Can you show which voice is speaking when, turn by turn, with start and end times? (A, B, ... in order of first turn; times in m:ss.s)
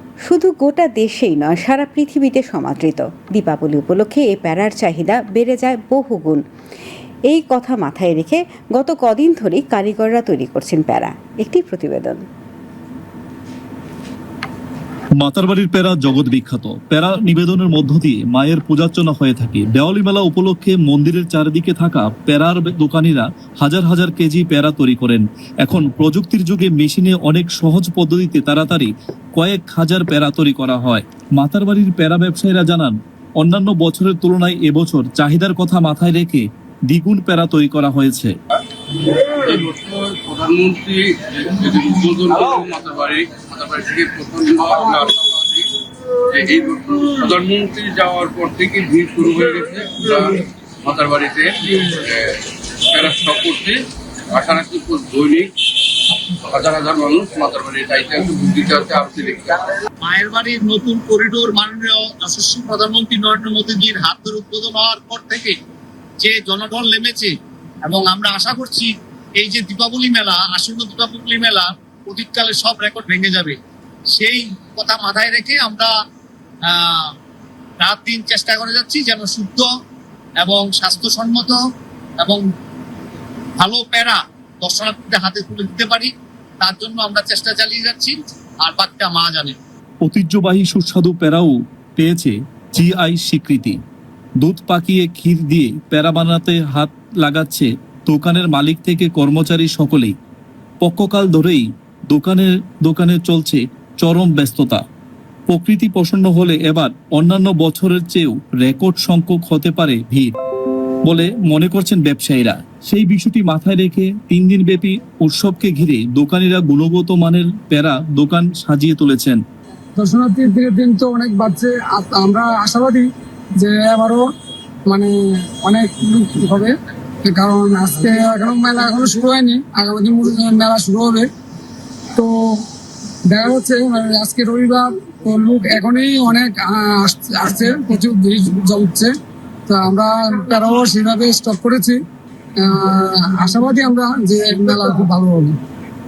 0:00.2-0:06.4 A
0:07.3-0:12.2 A
0:15.2-0:38.3 B
0:39.4-0:45.7 C
0:46.3-0:52.4 C
0:52.9-0:53.8 C
0:54.3-0:55.5 C
0:56.5-0:59.7 C
1:00.0-1:05.5 D
1:06.2-1:07.3 D
1:07.8-1:13.6 D
1:14.2-1:15.9 D
1:16.7-1:17.1 D
1:17.8-1:19.7 D
1:20.4-1:21.6 D
1:23.6-1:26.1 D
1:26.6-1:29.6 D
1:30.0-1:33.8 B
1:34.4-1:40.1 B
1:40.8-1:44.8 B
1:45.5-1:50.3 B
1:51.0-1:59.4 B
2:00.0-2:03.1 E
2:03.6-2:04.2 E
2:05.6-2:06.7 E
2:07.2-2:11.3 E
2:12.2-2:12.6 E
2:13.3-2:19.1 E
2:19.7-2:22.0 E
2:22.6-2:25.6 E